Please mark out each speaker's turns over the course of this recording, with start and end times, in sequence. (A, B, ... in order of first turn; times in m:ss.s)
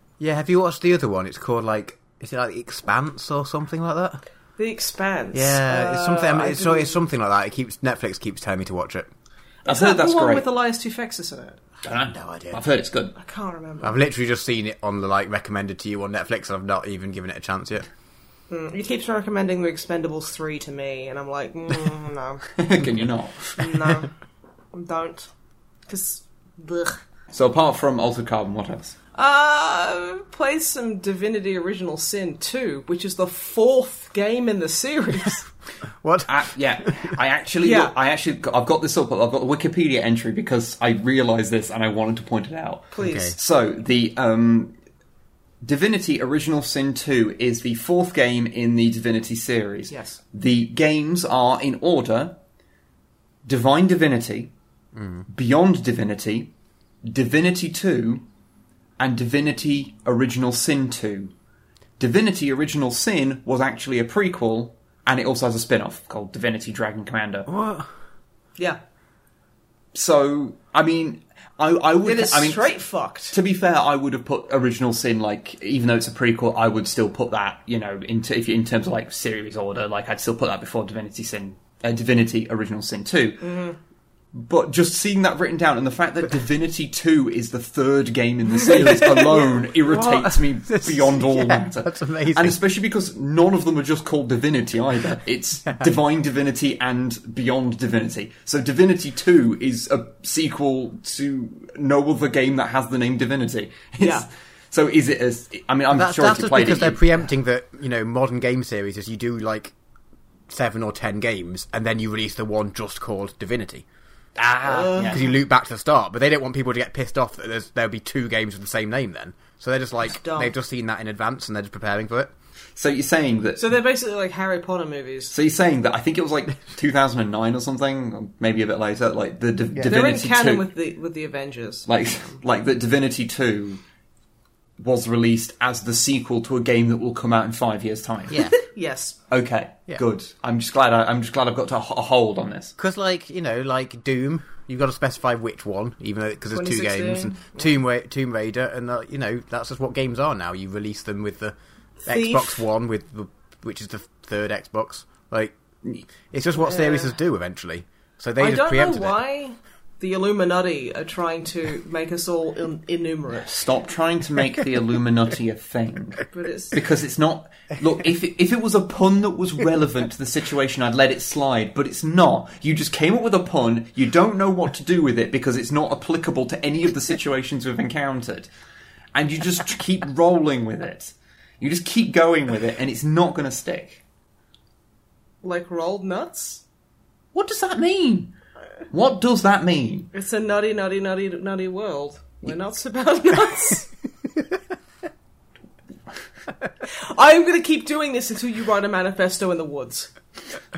0:00.2-0:04.2 A
0:04.6-0:07.0 B
0:05.3-0:09.1 A
0:09.6-0:11.6 B
0:09.7-0:10.5 C
0:11.8-0:13.2 C
0:12.1-0:12.6 A
0:13.2-0:14.0 B
0:13.8-0:17.8 A
0:18.5-0:22.4 B
0:22.6-0:24.0 C
0:23.6-0:24.1 B
0:24.7-0:25.3 B
0:25.9-0:27.0 B
0:27.3-0:29.0 C
0:29.2-0:35.5 B
0:36.0-0:37.1 A
0:36.3-0:44.7 C
0:37.6-0:37.9 B
0:42.9-0:43.4 B
0:43.0-0:43.4 A
0:45.6-0:52.4 C
0:49.9-0:50.2 B
0:53.4-0:54.5 C
0:55.0-0:55.2 A
0:55.3-0:56.5 C
0:57.0-0:58.3 C
0:59.0-1:01.3 C
1:02.0-1:07.5 C
1:07.5-1:07.9 A
1:09.9-1:12.7 C
1:12.0-1:13.4 B
1:13.3-1:23.5 C
1:23.4-1:23.8 B
1:24.3-1:47.0 C
1:28.8-1:29.5 B
1:29.8-1:32.6 A
1:44.0-1:44.3 B
1:45.9-1:49.7 A
1:50.5-1:53.8 A
1:54.4-1:55.2 C
1:54.6-1:55.3 B
1:55.0-2:02.3 A
2:00.0-2:00.5 B
2:02.8-2:03.7 C
2:03.6-2:05.3 B
2:05.3-2:10.7 C
2:09.8-2:11.9 B
2:11.9-2:13.8 C
2:14.8-2:18.5 C
2:18.4-2:19.2 B
2:19.3-2:22.8 C
2:22.8-2:31.6 A
2:26.6-2:27.7 B
2:32.0-2:32.6 B
2:32.1-2:35.6 A
2:36.3-2:39.2 A
2:36.6-2:37.1 B
2:38.4-2:43.6 B
2:43.4-2:58.5 C
2:46.3-2:46.8 B
2:59.1-3:04.0 C
3:05.4-3:06.6 B
3:07.3-3:08.3 C
3:08.9-3:10.1 C
3:10.1-3:13.9 B
3:16.8-3:20.1 B